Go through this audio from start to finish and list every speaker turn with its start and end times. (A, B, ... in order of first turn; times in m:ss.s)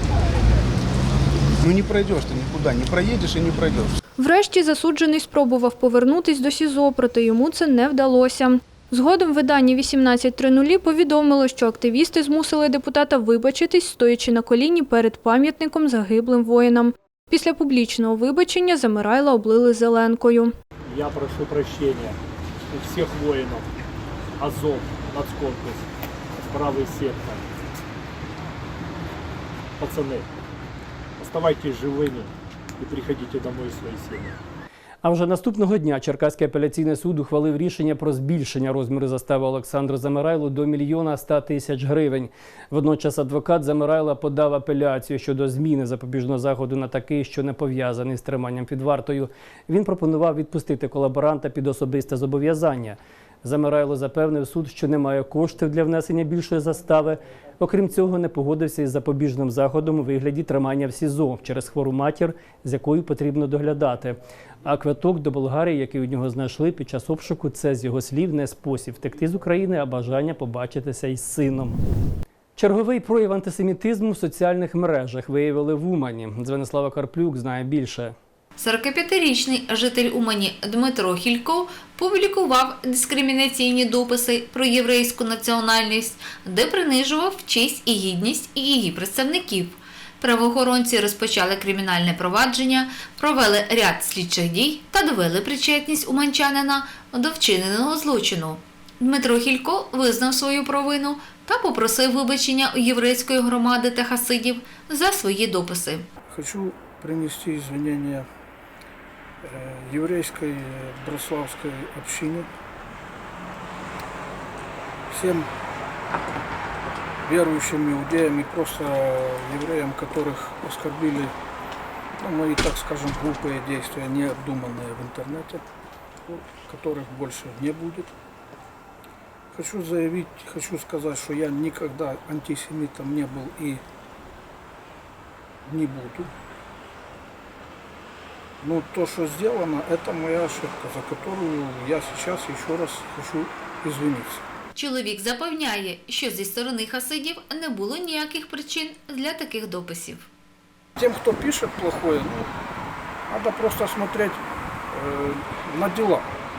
0:01.6-0:04.0 A
0:04.2-0:20.5 B
0:20.9-0:22.1 C
0:22.7-0:23.6 C
0:24.4-0:25.8 C
0:26.4-0:27.4 C
0:29.8-0:30.2 C
0:31.2-0:32.3 C
0:32.8-0:34.3 C
0:35.0-1:11.8 D
1:12.6-1:18.1 D
1:18.6-1:46.0 E
1:46.3-1:48.2 F
1:49.4-1:52.5 F
1:55.1-1:55.5 F
1:57.2-2:01.3 F
2:02.2-2:05.6 F
2:06.3-2:08.1 F
2:09.5-2:13.8 F
2:15.6-2:16.3 F
2:18.6-2:24.4 F
2:24.8-2:30.2 E
2:31.0-2:32.5 F
2:33.3-2:34.4 F
2:34.9-2:36.3 F